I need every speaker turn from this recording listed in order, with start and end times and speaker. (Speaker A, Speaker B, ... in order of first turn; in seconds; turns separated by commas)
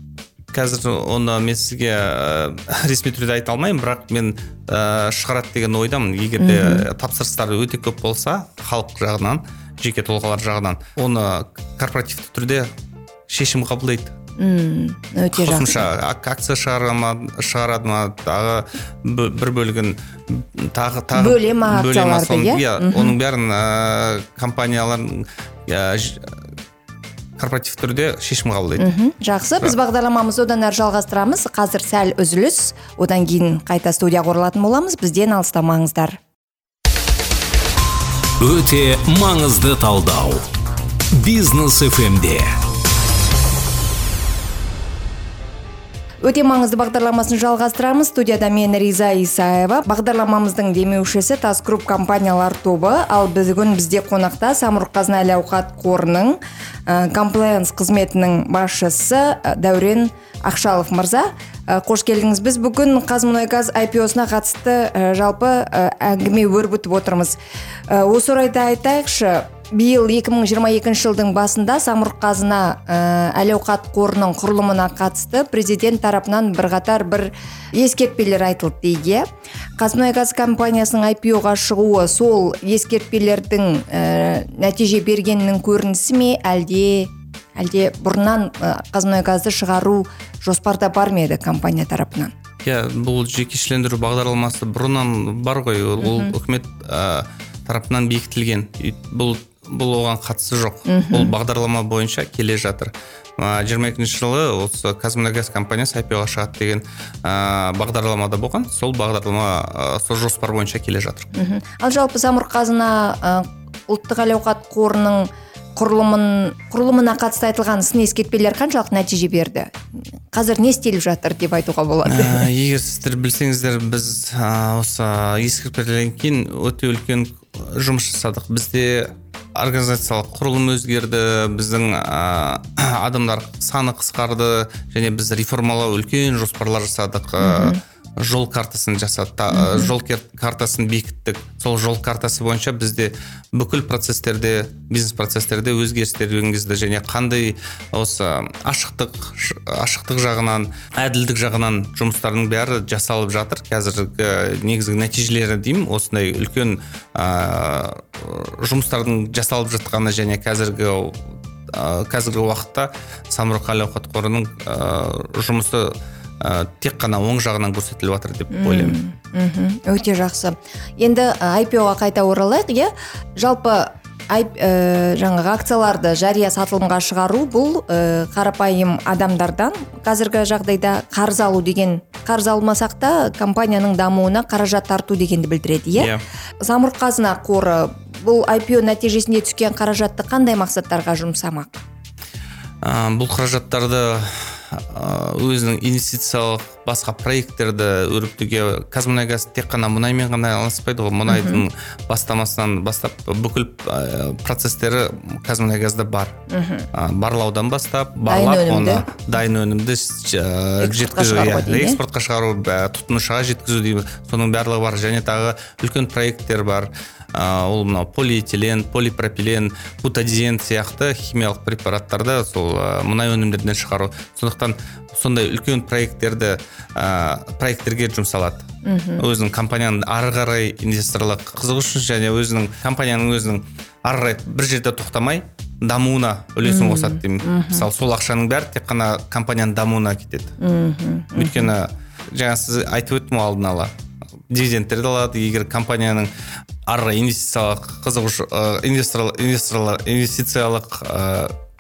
Speaker A: 0.5-12.7, Speaker B: 6.4-6.9, Speaker A: 13.3-14.2, Speaker B: 14.4-15.9, Speaker A: 15.3-26.5, Speaker B: 21.1-23.2, Speaker A: 27.4-28.9, Speaker B: 28.8-36.2, Speaker C: 38.4-40.5, Speaker C: 41.1-42.6, Speaker B: 46.2-67.4, Speaker B: 67.9-79.3, Speaker B: 79.8-92.3, Speaker A: 92.6-111.3, Speaker B: 96.0-96.3, Speaker B: 100.9-101.3, Speaker B: 111.3-119.8, Speaker B: 120.3-122.5, Speaker A: 122.0-169.0, Speaker B: 137.4-137.8, Speaker B: 139.5-139.9, Speaker B: 168.5-186.1, Speaker A: 186.0-186.2, Speaker B: 186.6-191.8, Speaker A: 192.8-206.4, Speaker B: 201.3-201.6, Speaker B: 206.5-206.9, Speaker A: 206.9-228.7, Speaker B: 208.3-209.1, Speaker B: 210.8-212.0, Speaker B: 228.8-229.2, Speaker A: 229.2-240.6, Speaker B: 236.7-237.9, Speaker B: 240.6-241.7, Speaker A: 241.4-243.9, Speaker A: 244.5-246.3, Speaker A: 246.9-251.6